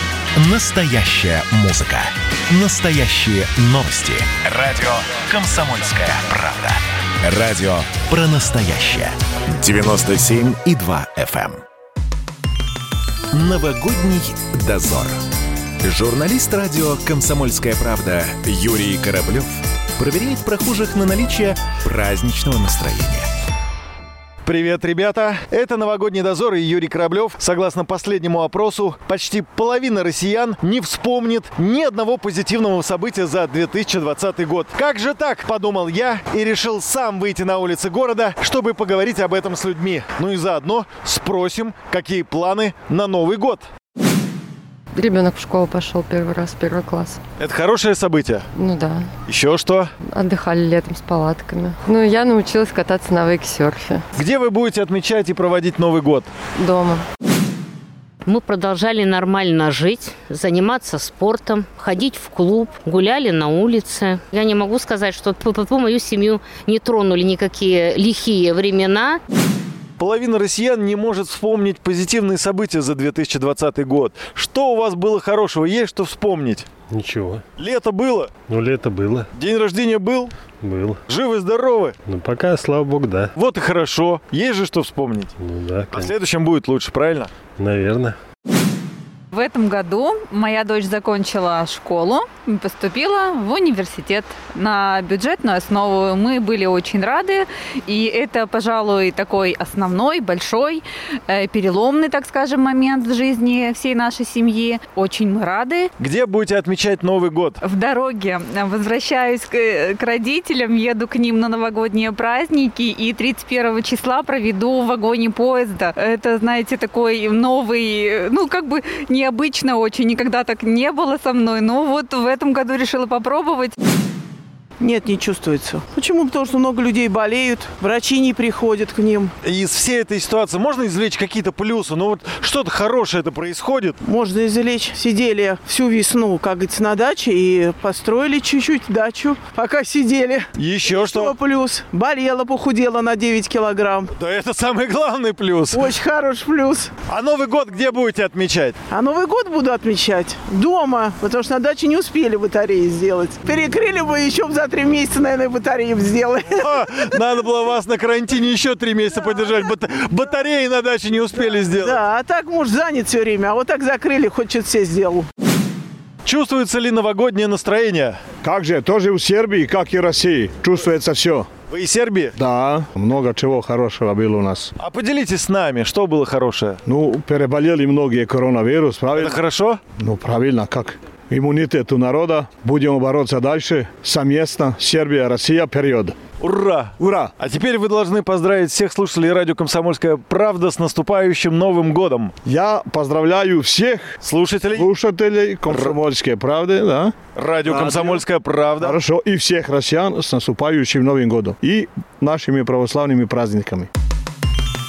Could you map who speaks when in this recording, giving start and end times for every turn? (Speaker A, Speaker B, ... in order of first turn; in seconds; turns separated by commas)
Speaker A: 0.3-11.6, Speaker A: 13.3-15.2, Speaker A: 15.8-23.2, Speaker B: 24.4-43.6, Speaker C: 44.9-47.2, Speaker B: 47.4-48.5, Speaker C: 48.5-49.1, Speaker B: 49.3-49.9, Speaker C: 50.1-54.0, Speaker B: 54.1-56.3, Speaker C: 56.6-57.0, Speaker D: 58.2-69.2, Speaker B: 70.0-76.7, Speaker E: 76.9-77.4, Speaker B: 77.6-78.3, Speaker E: 78.5-79.3, Speaker B: 79.3-80.3, Speaker E: 80.6-81.0, Speaker B: 81.1-82.0, Speaker E: 82.1-83.3, Speaker B: 83.3-85.3, Speaker E: 85.4-86.1, Speaker B: 85.9-87.3, Speaker E: 87.6-88.2, Speaker F: 89.3-105.9, Speaker B: 106.0-107.6, Speaker F: 107.6-123.8, Speaker G: 124.8-129.3, Speaker B: 129.4-133.9, Speaker G: 134.0-144.1, Speaker B: 140.6-141.4, Speaker B: 144.2-146.0, Speaker G: 145.7-146.9, Speaker B: 147.1-148.8, Speaker G: 148.9-156.8, Speaker B: 156.6-162.0, Speaker G: 161.7-165.3, Speaker B: 166.2-168.2, Speaker H: 168.4-171.5, Speaker B: 171.7-172.3, Speaker H: 172.3-174.7, Speaker B: 174.8-176.8, Speaker H: 176.8-179.4, Speaker B: 179.1-179.8, Speaker H: 179.9-186.2, Speaker B: 186.4-192.3, Speaker H: 187.0-187.3, Speaker H: 192.4-194.2, Speaker B: 194.2-194.9, Speaker H: 194.7-198.2, Speaker B: 195.7-195.9, Speaker B: 197.3-199.0, Speaker H: 198.8-203.9